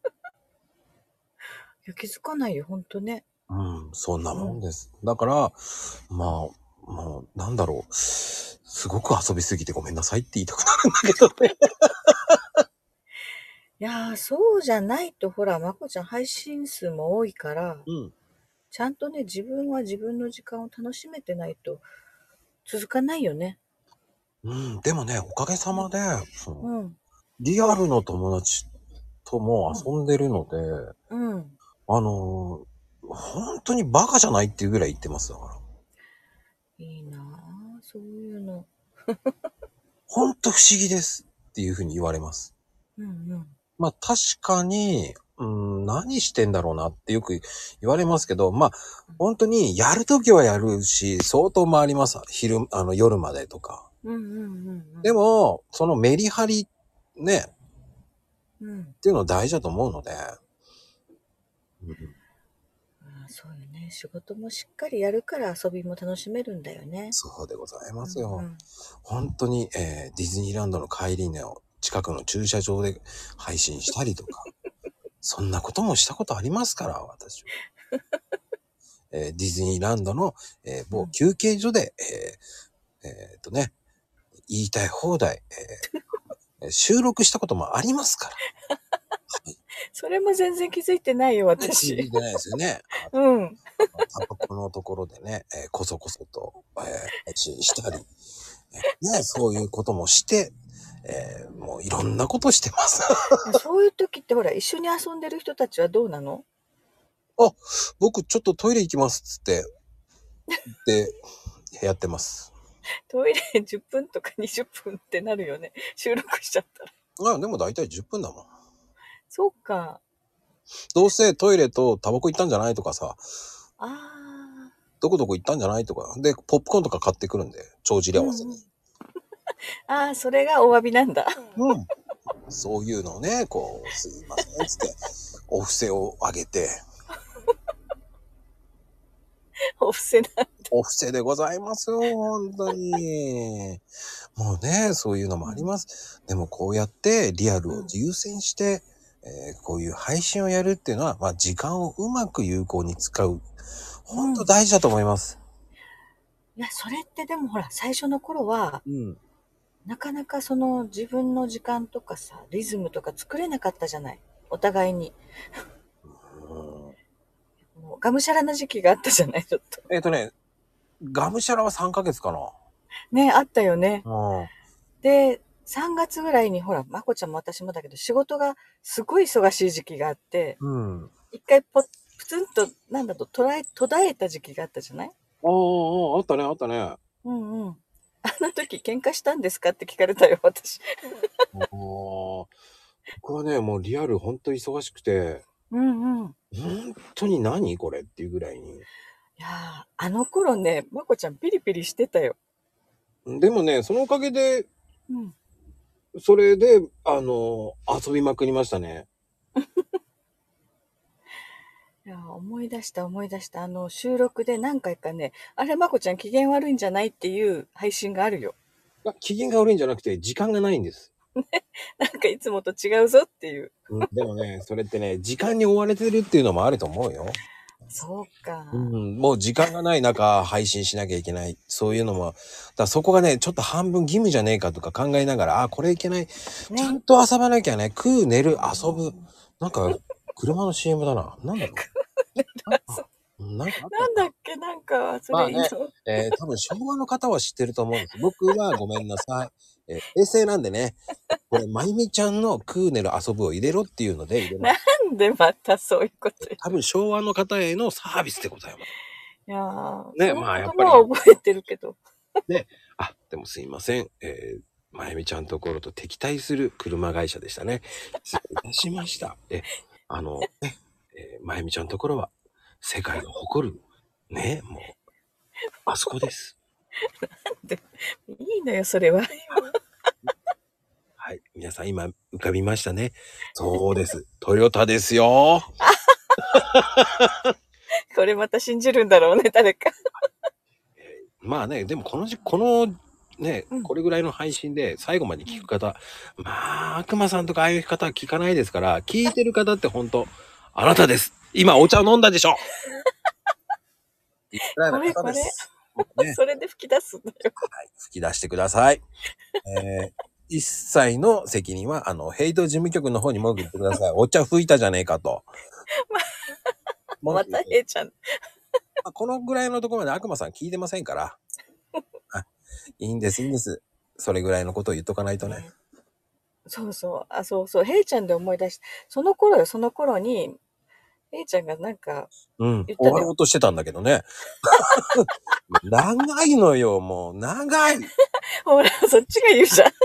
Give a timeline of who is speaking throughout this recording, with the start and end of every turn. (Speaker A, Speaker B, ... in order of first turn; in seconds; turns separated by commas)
Speaker A: 1.8-3.2, Speaker B: 3.5-12.3, Speaker A: 4.3-4.6, Speaker A: 13.8-17.9, Speaker B: 17.9-18.1, Speaker A: 18.7-21.8, Speaker A: 22.6-23.6, Speaker B: 24.4-26.7, Speaker A: 26.6-27.0, Speaker B: 27.4-28.7, Speaker B: 29.2-30.9, Speaker A: 31.1-31.6, Speaker B: 31.9-35.6, Speaker A: 36.8-39.3, Speaker B: 40.1-42.5, Speaker A: 43.0-43.6, Speaker B: 43.8-53.8, Speaker A: 54.0-55.1, Speaker B: 55.0-57.5, Speaker A: 58.6-59.0, Speaker B: 59.0-60.3, Speaker B: 61.8-62.1, Speaker A: 63.0-67.2, Speaker B: 67.1-68.5, Speaker A: 68.0-68.6, Speaker B: 69.0-74.5, Speaker B: 75.2-77.5, Speaker B: 79.1-82.4, Speaker B: 83.0-83.7, Speaker B: 84.5-85.8, Speaker B: 86.6-88.4, Speaker A: 89.9-92.1, Speaker B: 91.6-93.1, Speaker A: 93.1-94.1, Speaker B: 94.0-98.1, Speaker B: 98.8-103.5, Speaker A: 103.4-106.5, Speaker B: 107.4-109.7, Speaker B: 110.7-111.1, Speaker B: 111.8-112.5, Speaker A: 113.1-116.9, Speaker B: 117.2-118.5, Speaker A: 119.3-120.0, Speaker B: 120.9-123.2, Speaker A: 123.8-124.7, Speaker B: 125.0-128.5, Speaker A: 128.1-128.7, Speaker A: 129.9-131.3, Speaker B: 131.6-131.9, Speaker B: 132.5-136.8, Speaker A: 139.8-140.7, Speaker B: 140.7-143.8, Speaker B: 144.4-153.4, Speaker A: 145.4-145.7, Speaker B: 154.0-155.4, Speaker A: 154.1-154.5, Speaker A: 156.6-158.8, Speaker B: 158.8-159.2, Speaker A: 159.8-165.2, Speaker B: 166.1-166.9, Speaker A: 167.7-169.8, Speaker B: 169.9-170.3, Speaker B: 171.0-172.5, Speaker A: 173.1-174.0, Speaker B: 174.0-174.5, Speaker A: 175.0-180.6, Speaker B: 180.6-181.1, Speaker A: 181.3-185.1, Speaker B: 185.4-187.0, Speaker A: 187.2-190.9, Speaker B: 191.5-192.5, Speaker B: 193.2-195.4, Speaker A: 195.7-196.3, Speaker B: 196.5-198.8, Speaker A: 199.4-202.4, Speaker B: 203.2-204.7, Speaker A: 205.1-205.3, Speaker B: 206.1-209.1, Speaker A: 209.6-209.9, Speaker A: 212.0-218.6, Speaker B: 219.0-221.1, Speaker A: 221.4-223.7, Speaker B: 223.9-227.4, Speaker A: 227.9-228.9, Speaker B: 228.7-241.8, Speaker A: 236.7-237.0, Speaker A: 241.7-243.0, Speaker B: 242.6-244.3, Speaker A: 243.9-246.3, Speaker B: 245.3-251.0, Speaker B: 251.5-254.8, Speaker A: 254.6-256.6, Speaker B: 256.4-258.9, Speaker A: 259.5-262.0, Speaker B: 260.1-261.1, Speaker B: 262.5-274.9, Speaker B: 275.9-276.6, Speaker A: 277.6-279.7, Speaker B: 281.2-285.7, Speaker B: 286.5-287.5, Speaker A: 288.1-289.9, Speaker B: 291.0-302.6, Speaker B: 304.5-306.4, Speaker A: 304.8-307.6, Speaker B: 307.7-309.0, Speaker B: 309.6-315.5, Speaker A: 316.1-316.5, Speaker B: 317.2-317.8, Speaker A: 317.2-318.4, Speaker B: 319.0-321.4, Speaker B: 323.0-325.6, Speaker A: 325.4-325.7, Speaker A: 326.7-330.6, Speaker A: 331.3-332.3, Speaker B: 332.6-334.3, Speaker A: 332.9-333.3, Speaker B: 334.9-338.1, Speaker A: 338.6-339.9